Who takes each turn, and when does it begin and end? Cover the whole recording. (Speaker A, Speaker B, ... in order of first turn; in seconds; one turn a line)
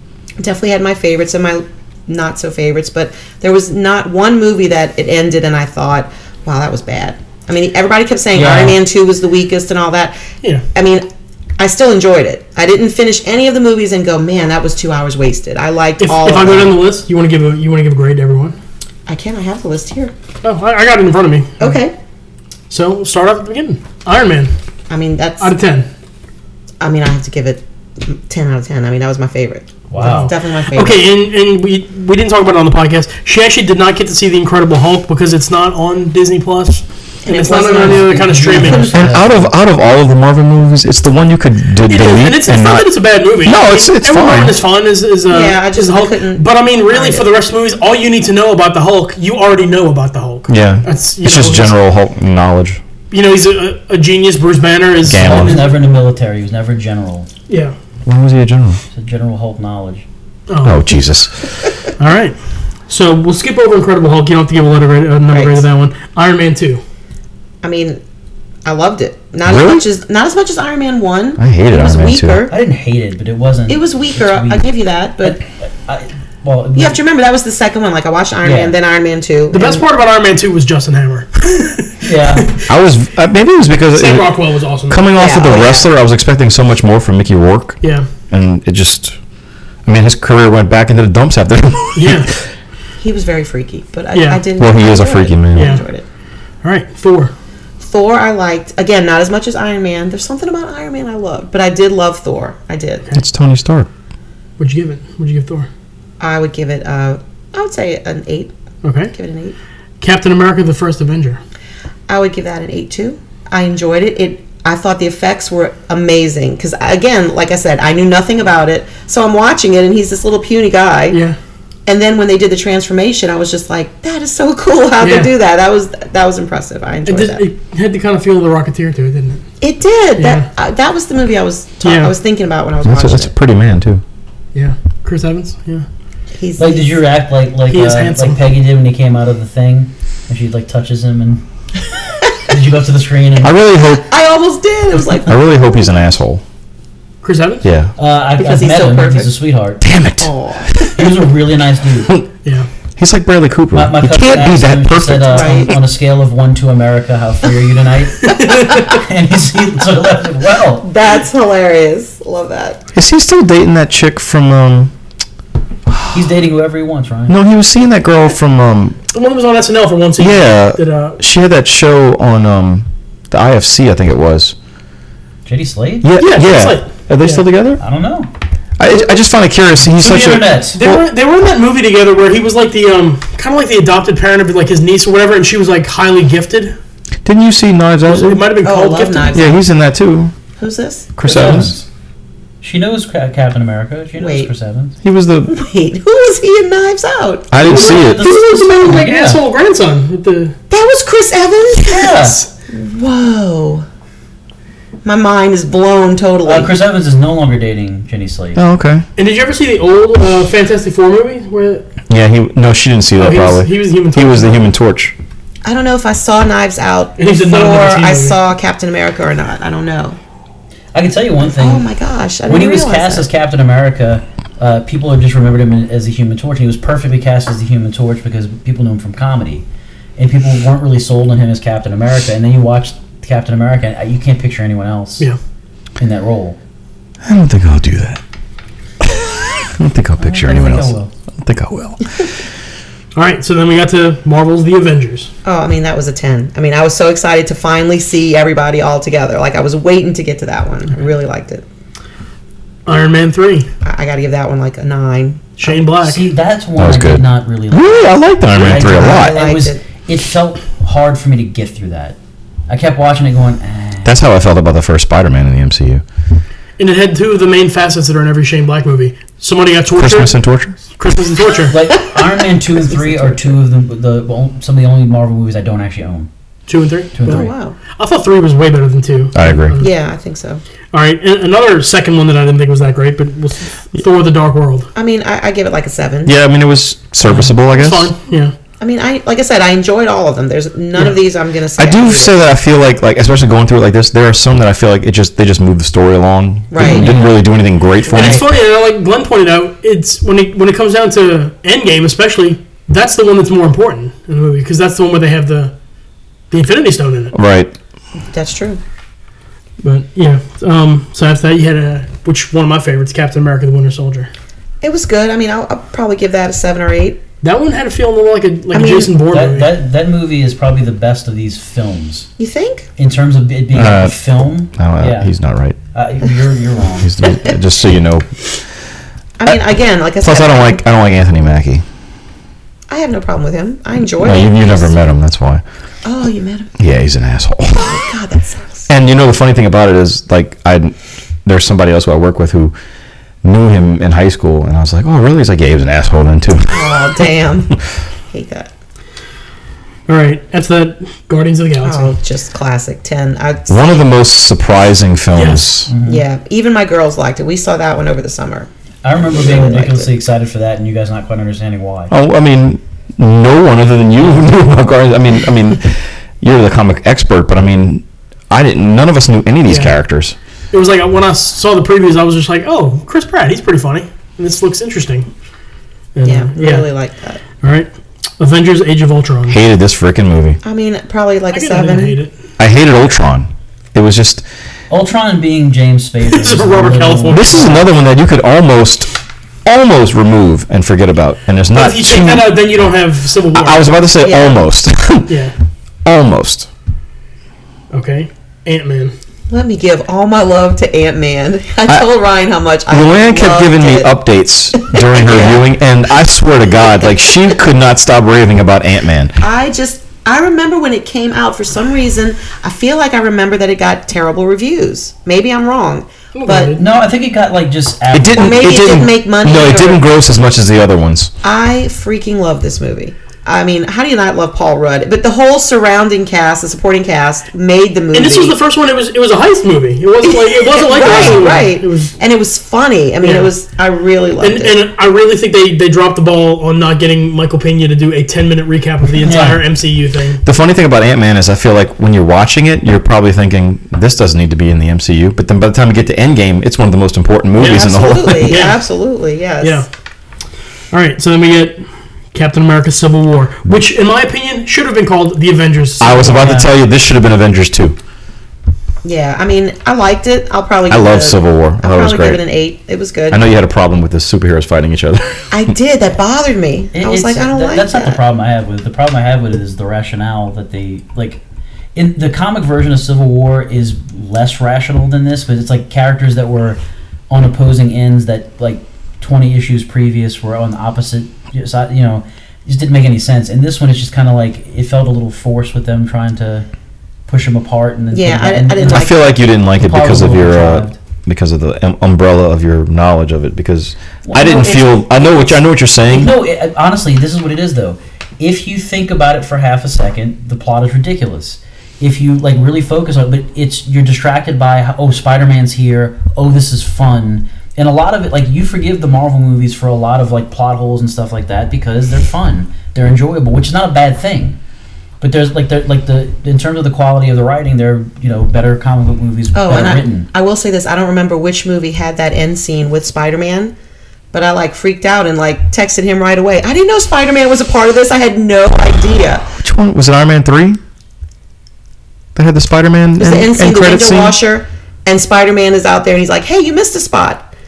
Speaker A: 0.4-10.2
Speaker B: 8.3-8.8
Speaker A: 10.7-11.1
Speaker A: 11.6-16.8
Speaker C: 16.0-18.6
Speaker A: 19.1-20.1
Speaker C: 20.4-21.8
Speaker A: 21.6-21.9
Speaker C: 22.7-24.5
Speaker A: 24.9-25.5
Speaker C: 25.4-25.9
Speaker A: 26.8-31.0
Speaker B: 29.9-30.3
Speaker C: 30.0-38.9
Speaker A: 37.2-39.1
Speaker B: 37.8-39.5
Speaker D: 38.9-42.9
Speaker C: 41.9-51.8
Speaker D: 43.4-44.6
Speaker A: 45.3-47.3
Speaker D: 50.5-52.8
Speaker C: 53.1-55.7
Speaker D: 55.0-55.7
Speaker B: 55.2-57.3
Speaker C: 57.5-57.7
Speaker D: 58.1-58.8
Speaker B: 58.9-60.0
Speaker C: 60.5-60.9
Speaker D: 60.6-61.6
Speaker C: 62.0-66.8
Speaker A: 65.3-65.6
Speaker A: 67.6-68.0
Speaker A: 68.7-72.6
Speaker D: 69.5-69.8
Speaker D: 71.4-72.5
Speaker B: 72.5-74.7
Speaker A: 73.7-75.4
Speaker B: 75.2-77.0
Speaker A: 76.8-79.8
Speaker B: 78.4-78.8
Speaker C: 79.5-82.5
Speaker B: 82.0-82.6
Speaker D: 82.7-89.2
Speaker C: 83.9-85.1
Speaker A: 85.1-85.9
Speaker D: 89.9-92.3
Speaker C: 92.0-92.3
Speaker A: 93.0-96.0
Speaker C: 94.1-94.4
Speaker D: 94.6-95.8
Speaker C: 95.5-95.8
Speaker C: 96.6-97.3
Speaker A: 97.8-103.1
Speaker D: 103.1-103.9
Speaker C: 104.6-105.7
Speaker A: 106.2-108.5
Speaker C: 108.8-109.1
Speaker A: 109.1-109.6
Speaker C: 110.0-111.4
Speaker A: 112.1-121.2
Speaker C: 121.1-121.4
Speaker A: 121.9-127.5
Speaker C: 125.0-125.3
Speaker C: 127.0-129.4
Speaker A: 129.6-133.3
Speaker C: 130.2-130.4
Speaker C: 131.8-132.1
Speaker D: 132.8-134.0
Speaker C: 134.6-135.9
Speaker A: 136.3-137.0
Speaker B: 136.6-141.4
Speaker C: 137.7-138.4
Speaker B: 142.5-143.6
Speaker D: 143.4-144.0
Speaker A: 144.0-145.6
Speaker D: 145.3-146.4
Speaker C: 147.2-147.7
Speaker D: 147.6-147.9
Speaker B: 148.0-149.8
Speaker A: 148.4-149.3
Speaker D: 149.8-151.1
Speaker A: 150.2-150.7
Speaker B: 150.9-152.1
Speaker D: 153.0-155.7
Speaker B: 153.7-160.9
Speaker A: 155.3-155.7
Speaker A: 160.8-162.8
Speaker D: 162.9-164.9
Speaker B: 166.1-167.4
Speaker D: 167.3-169.0
Speaker C: 169.1-171.2
Speaker D: 170.2-174.6
Speaker B: 175.5-176.1
Speaker D: 176.0-177.8
Speaker C: 176.2-177.4
Speaker B: 177.8-178.3
Speaker D: 178.8-181.0
Speaker B: 180.0-180.8
Speaker C: 180.8-186.8
Speaker D: 187.2-188.5
Speaker C: 188.1-189.4
Speaker A: 188.6-189.6
Speaker D: 189.3-190.3
Speaker A: 190.6-191.1
Speaker D: 191.2-191.8
Speaker B: 191.2-191.9
Speaker B: 192.6-195.0
Speaker A: 194.2-194.5
Speaker D: 195.0-195.5
Speaker A: 195.5-197.5
Speaker D: 197.5-198.3
Speaker B: 197.6-199.4
Speaker C: 197.7-200.6
Speaker A: 200.7-203.9
Speaker B: 201.9-202.4
Speaker A: 205.0-206.7
Speaker B: 206.4-208.6
Speaker D: 208.6-209.0
Speaker C: 209.2-211.9
Speaker D: 212.1-215.2
Speaker C: 213.2-214.5
Speaker A: 215.6-220.2
Speaker C: 217.2-218.4
Speaker B: 220.9-221.9
Speaker A: 221.4-223.3
Speaker B: 222.5-229.7
Speaker B: 230.2-235.3
Speaker B: 236.0-236.6
Speaker D: 237.2-238.2
Speaker D: 239.0-242.3
Speaker B: 240.2-241.1
Speaker C: 243.2-245.3
Speaker A: 245.4-251.7
Speaker C: 252.9-253.7
Speaker A: 253.8-255.6
Speaker C: 255.6-256.2
Speaker B: 256.0-262.2
Speaker D: 256.8-259.4
Speaker A: 258.7-259.8
Speaker B: 262.7-264.2
Speaker D: 264.1-266.0
Speaker C: 266.8-270.4
Speaker D: 270.0-270.8
Speaker C: 271.0-271.8
Speaker B: 271.7-276.3
Speaker C: 276.7-279.9
Speaker B: 277.1-277.5
Speaker A: 277.3-277.8
Speaker D: 279.4-279.8
Speaker A: 279.8-280.6
Speaker C: 280.9-284.9
Speaker A: 284.9-286.3
Speaker D: 286.3-288.1
Speaker C: 287.2-288.5
Speaker A: 288.8-292.5
Speaker D: 291.8-298.5
Speaker A: 296.7-297.1
Speaker B: 296.8-297.3
Speaker A: 298.1-298.4
Speaker C: 298.1-305.7
Speaker C: 306.5-307.3
Speaker D: 307.3-307.8
Speaker A: 308.2-308.8
Speaker C: 309.8-314.3
Speaker A: 314.8-317.2
Speaker C: 317.4-319.7
Speaker A: 318.7-319.1
Speaker B: 319.3-322.3
Speaker A: 322.4-322.9
Speaker B: 323.0-325.3
Speaker D: 323.7-324.2
Speaker D: 324.7-325.8
Speaker B: 325.9-327.2
Speaker D: 327.0-328.3
Speaker A: 329.4-330.8
Speaker D: 330.2-331.8
Speaker A: 332.9-334.9
Speaker D: 334.2-335.6
Speaker A: 336.0-336.7
Speaker D: 336.8-338.0
Speaker A: 337.7-338.9
Speaker D: 338.9-340.9
Speaker D: 341.4-342.7
Speaker D: 343.4-347.1
Speaker A: 346.7-347.8
Speaker A: 348.3-348.7
Speaker C: 350.1-352.1
Speaker A: 351.8-354.1
Speaker D: 353.7-355.9
Speaker C: 355.4-355.7
Speaker B: 355.9-356.2
Speaker A: 356.0-358.7
Speaker B: 359.0-362.1
Speaker A: 359.2-360.1
Speaker D: 362.1-370.4
Speaker C: 369.7-370.0
Speaker C: 370.7-375.3
Speaker C: 376.1-376.9
Speaker A: 376.2-377.4
Speaker C: 377.6-379.6
Speaker D: 379.5-380.6
Speaker A: 380.6-382.2
Speaker C: 381.5-382.3
Speaker D: 382.6-384.4
Speaker B: 384.9-387.8
Speaker C: 386.3-387.8
Speaker D: 387.3-389.1
Speaker D: 389.6-392.6
Speaker C: 391.7-393.9
Speaker D: 393.5-395.3
Speaker A: 394.2-394.6
Speaker C: 395.3-395.6
Speaker D: 396.1-396.7
Speaker C: 397.9-399.1
Speaker A: 399.5-404.1
Speaker D: 402.9-409.4
Speaker A: 404.8-405.6
Speaker A: 409.4-416.8
Speaker C: 416.3-416.8
Speaker B: 416.8-419.0
Speaker D: 418.1-421.3
Speaker A: 418.4-420.0
Speaker A: 421.4-428.6
Speaker C: 428.1-432.1
Speaker A: 430.3-434.8
Speaker C: 433.2-433.5
Speaker C: 434.4-440.4
Speaker B: 439.2-439.6
Speaker D: 440.4-448.6
Speaker C: 447.6-448.8
Speaker A: 447.6-449.9
Speaker C: 449.6-449.9
Speaker C: 450.9-451.8
Speaker C: 452.3-456.6
Speaker D: 456.0-458.0
Speaker B: 456.4-456.7
Speaker A: 459.0-463.4
Speaker D: 460.9-462.4
Speaker D: 463.3-465.5
Speaker A: 465.5-468.2
Speaker B: 466.9-471.4
Speaker B: 471.9-486.7
Speaker B: 487.3-491.0
Speaker A: 488.1-489.4
Speaker D: 488.8-496.4
Speaker B: 494.2-494.8
Speaker A: 494.3-495.6
Speaker B: 496.1-514.6
Speaker B: 515.2-520.3
Speaker A: 519.5-523.7
Speaker A: 524.3-529.5
Speaker D: 529.6-530.8
Speaker D: 532.4-534.4
Speaker A: 533.2-537.5